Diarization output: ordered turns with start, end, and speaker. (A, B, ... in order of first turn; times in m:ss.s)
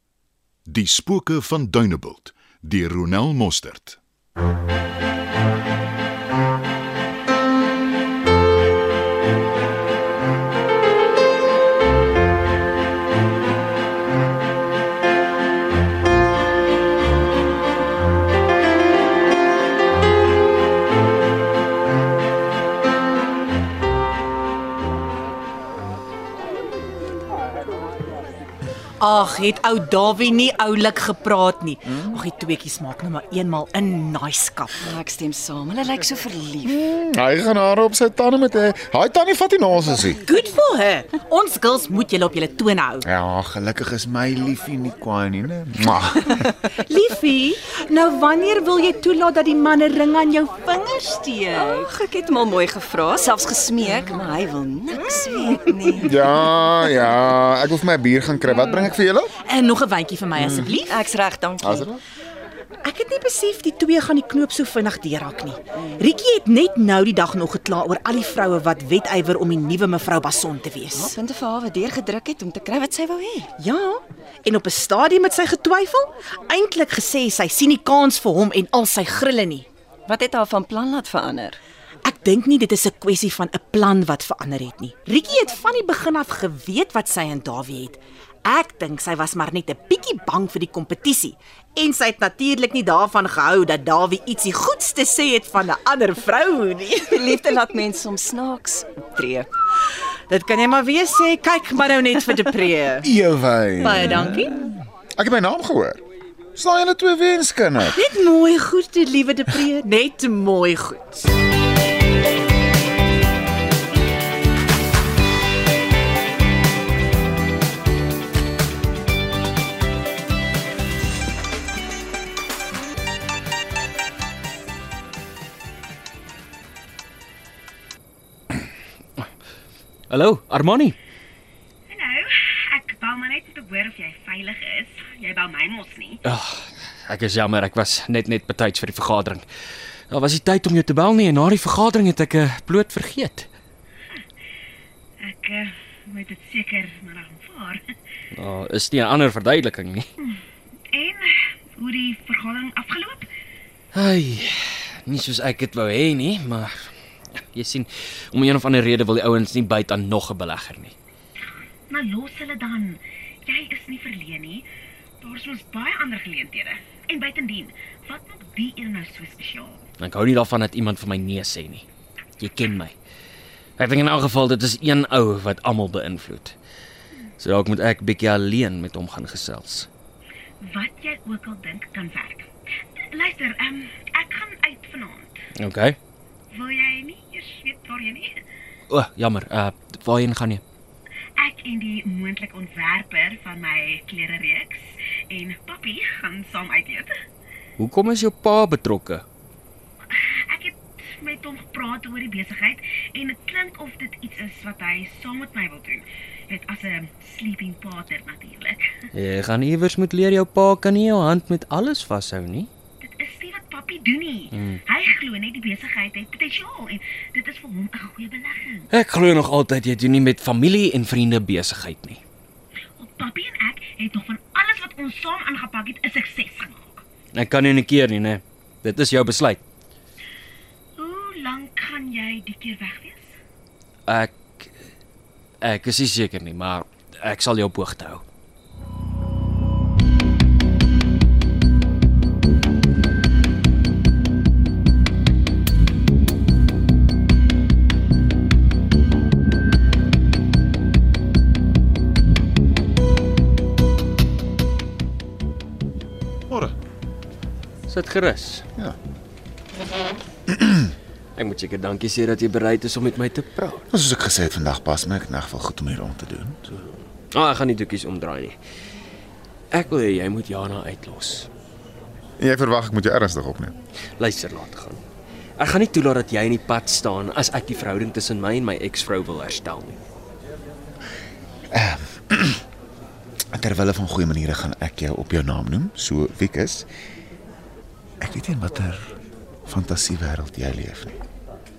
0:00.6-0:04.0 A
0:29.0-0:34.9 B
0:34.8-0:36.8 C
0:36.6-0:40.2 D
0:40.2-0:43.0 B
0:43.0-0:46.4 D
0:46.7-0:51.9 B
0:51.5-0:56.1 C
0:54.9-0:56.1 B
0:56.0-0:59.3 D
0:59.4-1:01.1 B
1:00.4-1:00.8 D
1:00.7-1:01.9 C
1:01.6-1:02.0 D
1:02.8-1:11.1 B
1:10.9-1:13.5 C
1:13.6-1:19.6 B
1:20.0-1:21.6 C
1:22.0-1:37.5 B
1:37.1-1:39.5 C
1:40.3-1:43.1 B
1:43.0-1:46.0 D
1:43.8-1:44.5 B
1:46.5-1:48.0 D
1:47.9-1:51.2 B
2:10.1-2:11.0 E
2:11.9-2:16.2 F
2:16.2-2:19.4 E
2:20.1-2:23.5 E
2:25.2-2:27.8 F
2:28.3-2:30.1 E
2:30.2-2:33.3 F
2:33.9-2:40.9 E
2:41.9-2:44.6 F
2:45.2-2:49.8 F
2:50.0-2:51.8 E
2:52.4-2:53.0 E
2:53.8-2:56.5 E
2:57.4-2:59.9 E
3:00.6-3:02.5 F
3:03.0-3:05.4 F
3:05.6-3:06.0 E
3:06.5-3:08.4 F
3:08.9-3:10.6 E
3:11.4-3:17.1 F
3:17.8-3:19.2 E
3:20.1-3:28.9 F
3:29.1-3:32.7 E
3:33.0-3:38.9 F
3:34.5-3:34.8 E
3:38.9-3:42.2 E
3:43.0-3:47.0 F
3:47.3-3:49.6 E
3:51.0-3:53.4 F
3:54.1-3:54.7 E
3:55.6-3:58.2 E
4:16.5-4:16.8 D
4:17.9-4:18.6 E
4:20.5-4:20.8 D
4:21.4-4:23.8 E
4:23.9-4:26.6 D
4:26.7-4:28.6 E
4:29.7-4:31.5 E
4:32.4-4:33.7 D
4:34.2-4:35.0 E
4:35.6-4:40.0 E
4:41.7-4:42.6 D
4:43.5-4:46.9 D
4:48.2-4:49.1 D
4:49.6-4:51.2 D